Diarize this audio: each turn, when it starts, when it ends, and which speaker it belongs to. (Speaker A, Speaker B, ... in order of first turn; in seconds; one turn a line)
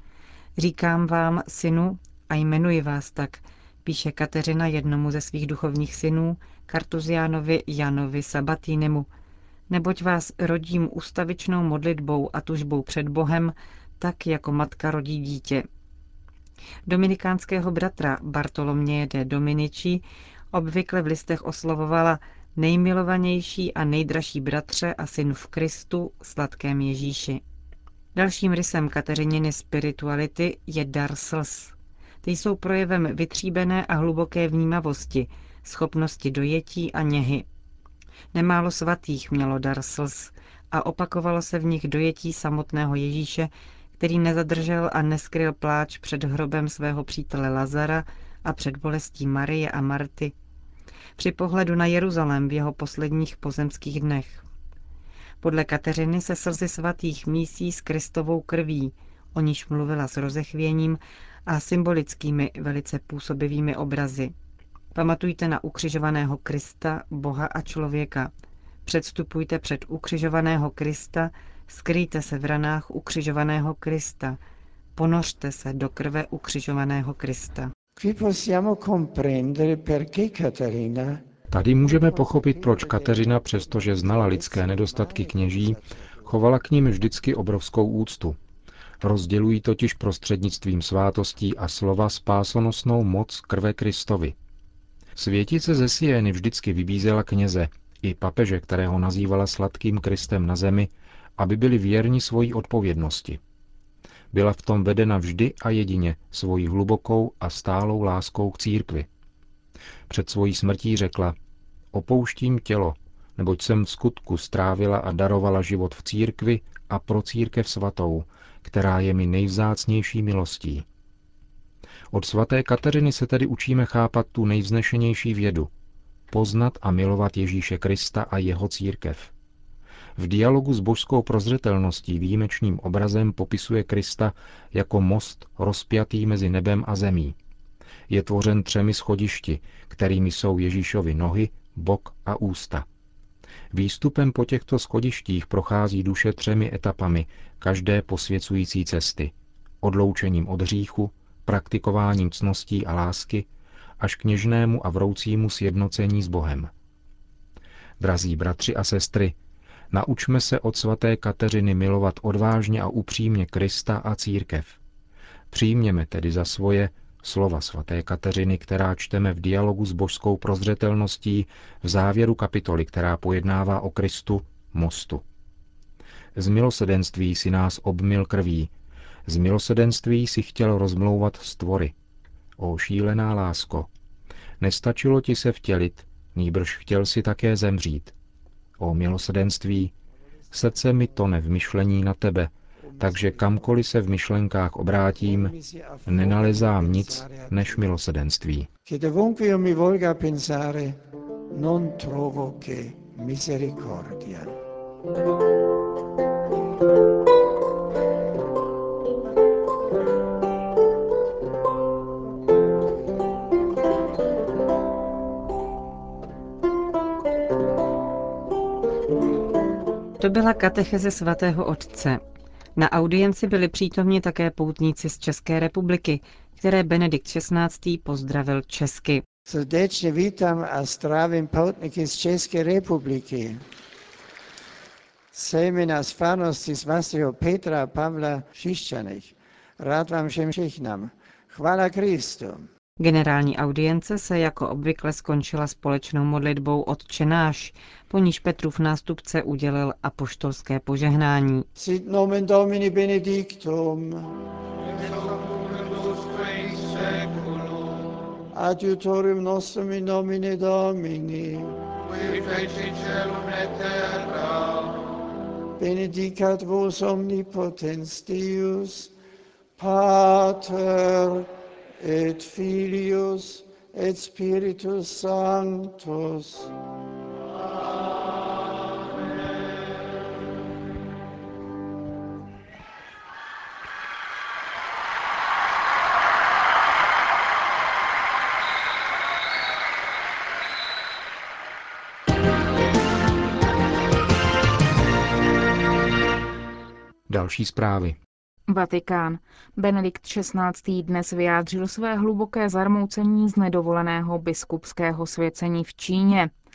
Speaker A: 0.6-9.1
Speaker A: 9.7-15.7
Speaker A: 16.9-27.4
Speaker A: 28.1-37.5
Speaker A: 38.3-50.3
Speaker A: 51.2-54.4
Speaker A: 55.4-64.3
Speaker A: 64.9-68.3
Speaker A: 68.8-74.4
Speaker A: 75.0-77.7
Speaker B: 78.0-81.2
Speaker C: 81.5-88.4
Speaker B: 81.8-86.3
Speaker C: 89.0-94.3
Speaker C: 95.2-103.4
Speaker C: 104.3-109.1
Speaker C: 110.1-111.3
Speaker C: 111.9-120.8
Speaker C: 122.1-125.7
Speaker C: 126.3-129.3
Speaker C: 130.2-137.3
Speaker C: 138.1-142.8
Speaker C: 143.7-153.5
Speaker C: 154.0-156.7
Speaker C: 158.0-159.3
Speaker C: 159.9-164.8
Speaker C: 165.5-175.2
Speaker C: 176.3-178.7
Speaker C: 179.3-181.9
Speaker C: 182.6-183.9
Speaker C: 184.6-188.1
Speaker C: 188.8-189.9
Speaker C: 190.5-195.5
Speaker B: 192.8-193.7
Speaker B: 195.2-197.9
Speaker C: 196.1-198.7
Speaker B: 198.8-201.0
Speaker B: 201.5-204.6
Speaker A: 220.2-222.2
Speaker A: 222.8-229.2
Speaker B: 229.5-233.7
Speaker B: 235.3-242.7
Speaker A: 243.0-251.7
Speaker B: 251.8-254.4
Speaker B: 255.2-257.6
Speaker B: 258.5-264.9
Speaker B: 265.8-269.1
Speaker B: 269.8-276.7
Speaker C: 297.3-298.2
Speaker D: 298.7-306.5